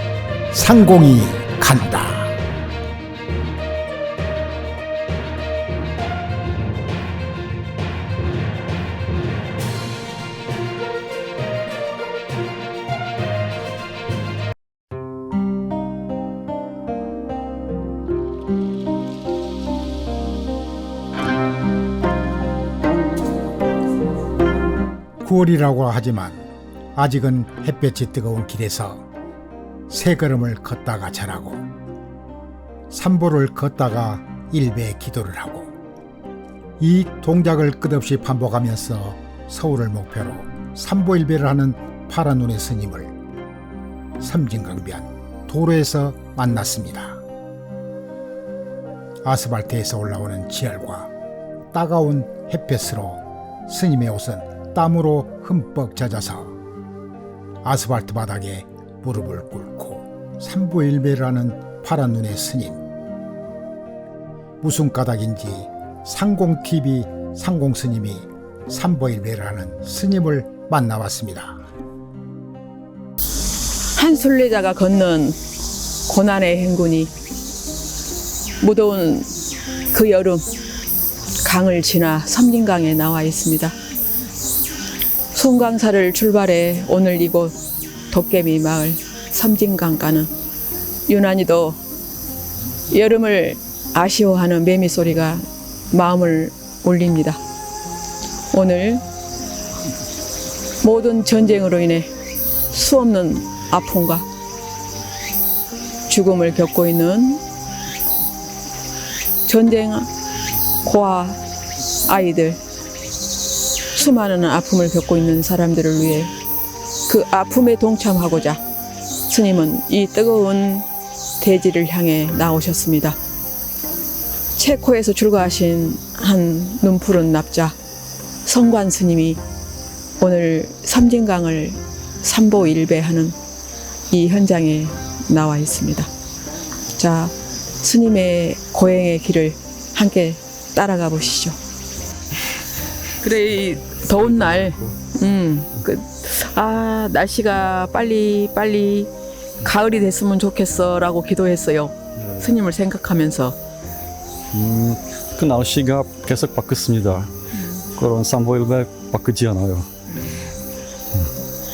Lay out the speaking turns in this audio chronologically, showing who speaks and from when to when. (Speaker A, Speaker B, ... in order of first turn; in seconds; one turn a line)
Speaker A: 0.5-2.4
Speaker A: 25.2-29.0
Speaker A: 29.9-31.6
Speaker A: 32.9-35.7
Speaker A: 36.8-43.1
Speaker A: 44.2-47.2
Speaker A: 49.2-51.1
Speaker A: 51.7-56.6
Speaker A: 57.6-62.8
Speaker A: 64.6-71.6
Speaker B: 74.0-75.4
Speaker B: 76.1-77.1
Speaker B: 78.6-79.3
Speaker B: 79.9-80.5
Speaker B: 81.4-83.8
Speaker B: 85.3-87.6
Speaker B: 88.1-90.3
Speaker B: 91.1-91.8
Speaker B: 92.9-97.4
Speaker B: 98.5-99.0
Speaker B: 100.8-102.1
Speaker B: 102.7-104.3
Speaker B: 106.1-107.4
Speaker B: 109.5-110.1
Speaker B: 110.8-111.4
Speaker B: 112.1-112.6
Speaker B: 113.9-116.3
Speaker B: 117.1-118.6
Speaker B: 119.3-120.9
Speaker B: 121.4-123.2
Speaker B: 124.6-127.8
Speaker B: 128.4-129.4
Speaker B: 130.2-133.4
Speaker B: 134.1-136.1
Speaker B: 136.9-141.6
Speaker B: 143.2-149.1
Speaker C: 144.1-145.0
Speaker B: 149.6-153.6
Speaker C: 152.2-152.6
Speaker C: 154.5-157.3
Speaker B: 157.5-157.9
Speaker C: 157.9-159.9
Speaker B: 160.1-160.4